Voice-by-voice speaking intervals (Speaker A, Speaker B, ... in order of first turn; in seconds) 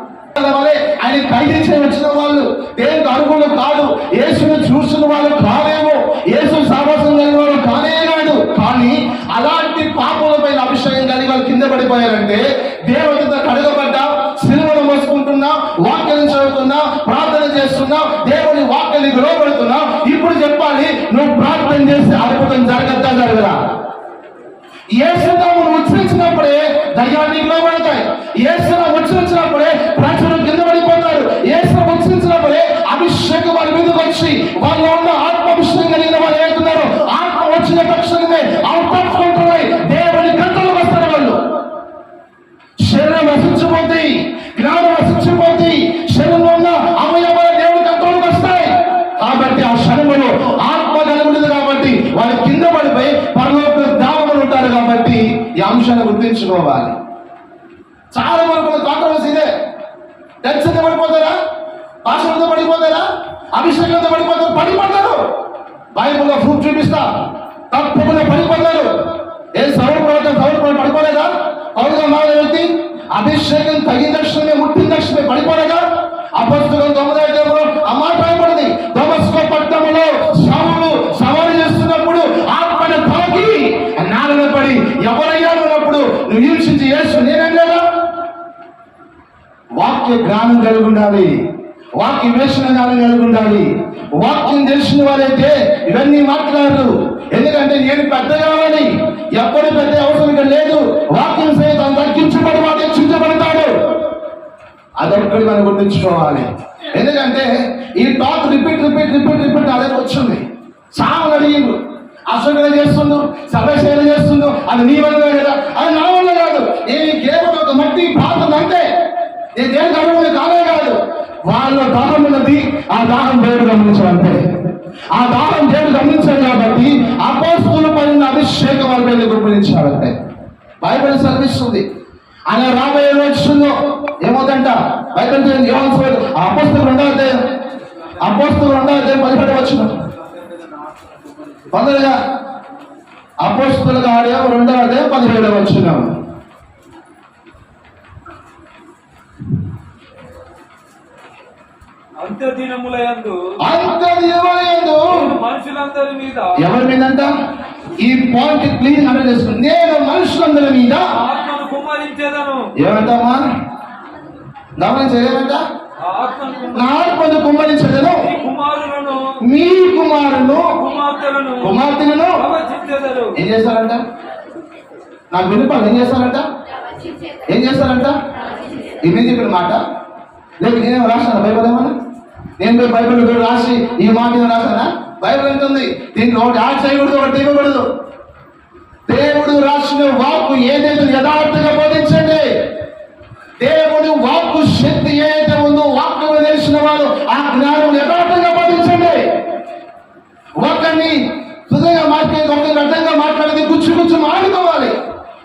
Speaker A: 0.3-23.6, 24.9-41.4, 42.8-57.0, 58.1-59.5, 60.4-61.4, 62.0-65.2, 66.0-67.1, 67.7-68.9, 69.6-75.8, 76.4-87.8, 89.8-91.3, 92.0-103.7, 105.0-111.8, 112.3-118.8, 119.6-124.4, 125.1-130.1, 130.8-131.8, 132.5-137.4, 138.2-140.0, 141.7-142.2, 143.4-146.1, 153.6-155.4, 156.6-157.3, 158.0-161.2, 162.8-163.4, 164.8-165.6, 166.7-168.3, 169.4-170.8, 171.6-172.5, 173.3-174.0, 175.3-176.4, 177.5-178.2, 179.0-179.8, 180.6-181.9, 182.6-187.9, 189.1-192.4, 193.6-199.2, 200.6-204.9
Speaker B: 152.2-153.6, 155.1-156.7, 161.1-162.7, 166.0-166.9, 168.2-169.4, 170.7-171.8, 172.3-173.4